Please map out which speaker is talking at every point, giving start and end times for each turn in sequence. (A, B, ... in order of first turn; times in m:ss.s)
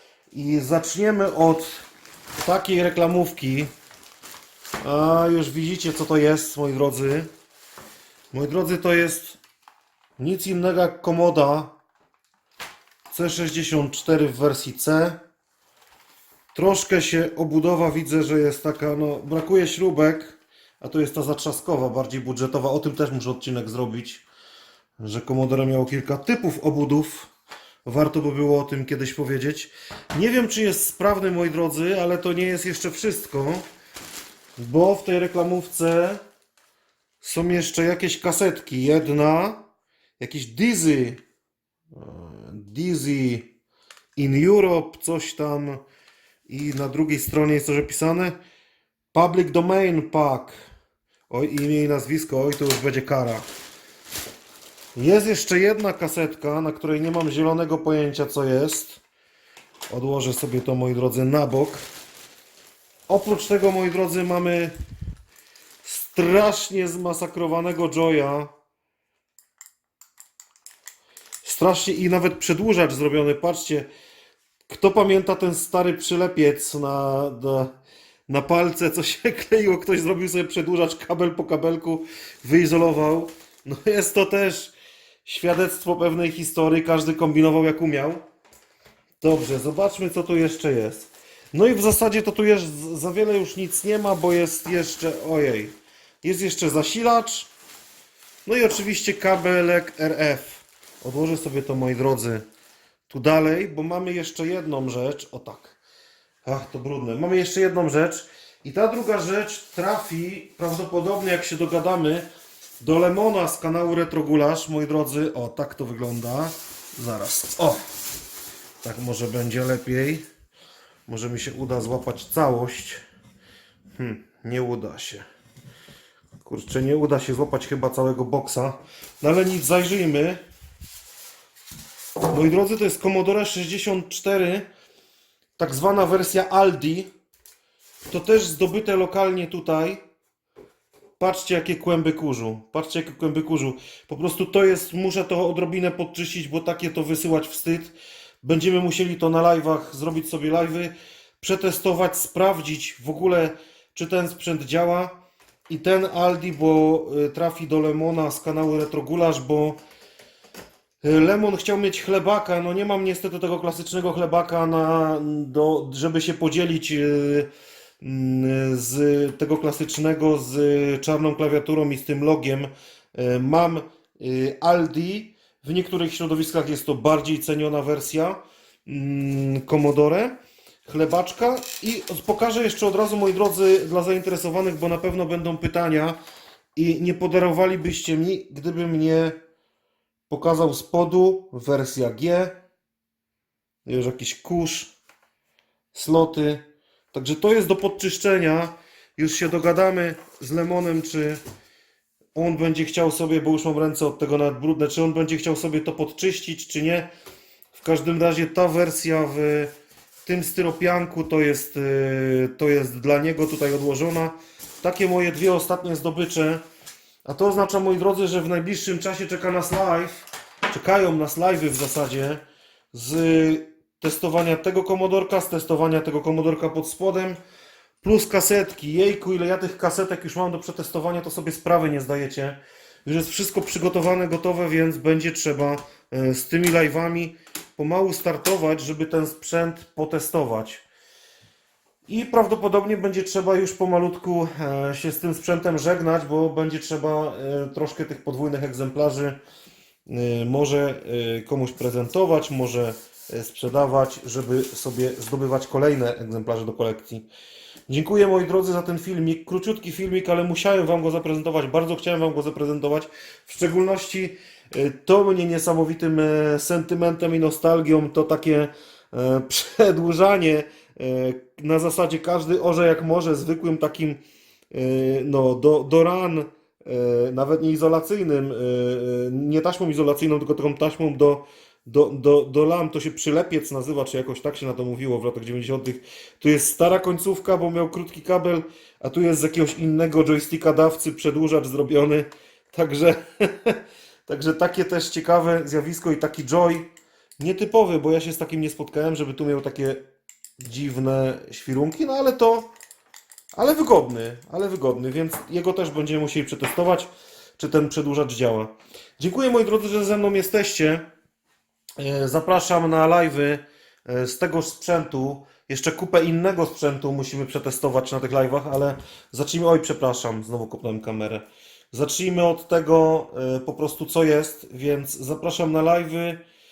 0:00.3-0:01.8 A
0:02.4-0:03.7 A
0:04.8-0:07.3 A
0:08.3-0:09.4 A
0:10.2-0:11.7 A
0:13.1-0:15.2 A
0:16.5-0:24.2 A
0:25.0-0:27.3 A
0:27.8-0:33.6 A
0:34.6-0:36.2 A
0:37.2-0:39.6 A
0:40.2-0:41.2 A
0:41.9-0:43.5 A
0:44.2-0:45.8 A
0:46.5-0:48.4 A
0:49.1-0:50.6 A
0:51.3-0:53.4 A
0:54.9-0:59.0 A
0:59.9-1:01.8 A
1:03.1-1:04.7 A
1:05.8-1:08.5 A
1:11.4-1:13.9 A
1:14.7-1:17.7 A
1:18.3-1:24.7 A
1:25.2-1:28.2 A
1:29.2-1:37.5 A
1:38.4-1:42.4 A
1:43.1-1:45.8 A
1:46.4-1:52.3 A
1:52.8-1:57.9 A
1:58.8-2:00.2 A
2:01.1-2:03.0 A
2:04.0-2:05.2 A
2:06.4-2:10.4 A
2:12.3-2:14.7 A
2:15.6-2:17.1 A
2:18.1-2:20.0 A
2:21.2-2:35.2 A
2:35.7-2:39.8 A
2:41.0-2:47.5 A
2:48.0-3:00.3 A
3:00.8-3:06.2 A
3:06.7-3:09.4 A
3:10.3-3:12.6 A
3:13.8-3:14.9 A
3:15.9-3:21.4 A
3:22.3-3:27.1 A
3:27.7-3:29.7 A
3:30.2-3:36.6 A
3:37.2-3:42.4 A
3:42.9-3:47.4 A
3:48.0-4:00.8 A
4:02.1-4:09.4 A
4:10.1-4:17.3 A
4:17.9-4:34.2 A
4:34.7-5:00.0 A
5:00.6-5:02.7 A
5:03.5-5:11.0 A
5:12.0-5:26.4 A